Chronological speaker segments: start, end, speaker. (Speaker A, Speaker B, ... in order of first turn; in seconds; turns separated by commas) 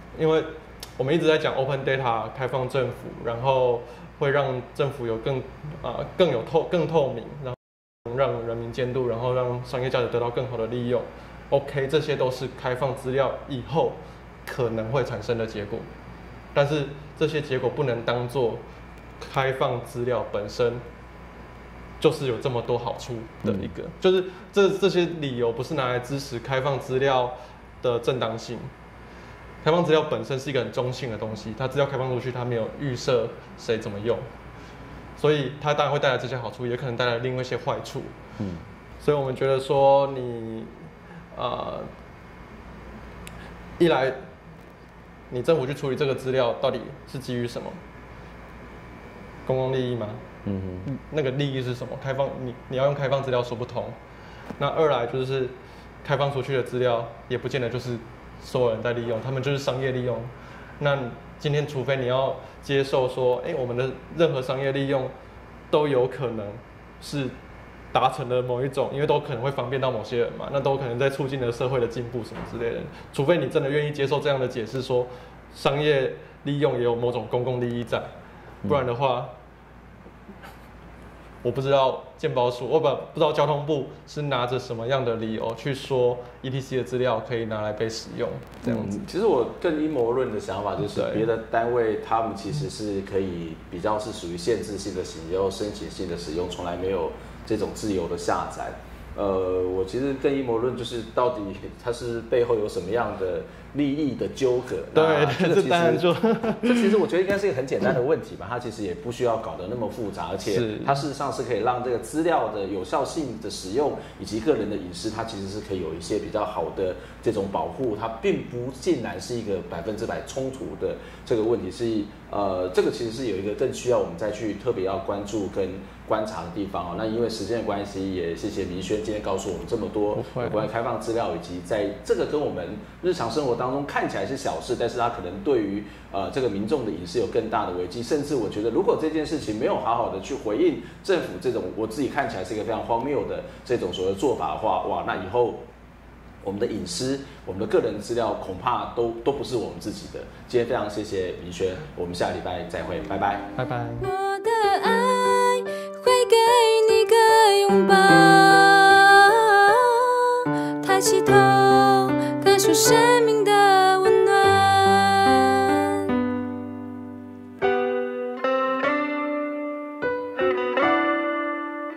Speaker A: 0.1-15.9, Speaker A: 16.5-18.6, Speaker A: 19.2-20.8, Speaker A: 22.0-28.7, Speaker B: 23.4-23.7, Speaker A: 29.6-34.2, Speaker A: 35.2-38.2, Speaker A: 39.0-40.7, Speaker A: 41.4-41.9, Speaker A: 43.8-44.2, Speaker A: 45.3-47.8, Speaker A: 49.5-50.2, Speaker B: 50.5-50.9, Speaker A: 50.9-54.0, Speaker A: 54.6-65.1, Speaker A: 65.7-67.3, Speaker A: 67.9-78.1, Speaker A: 78.7-79.3, Speaker A: 81.4-89.1, Speaker B: 88.7-145.7, Speaker A: 90.8-91.3, Speaker A: 104.9-106.9, Speaker A: 110.5-111.0, Speaker A: 130.2-130.7, Speaker B: 146.4-153.5, Speaker A: 153.6-154.1, Speaker C: 154.0-165.8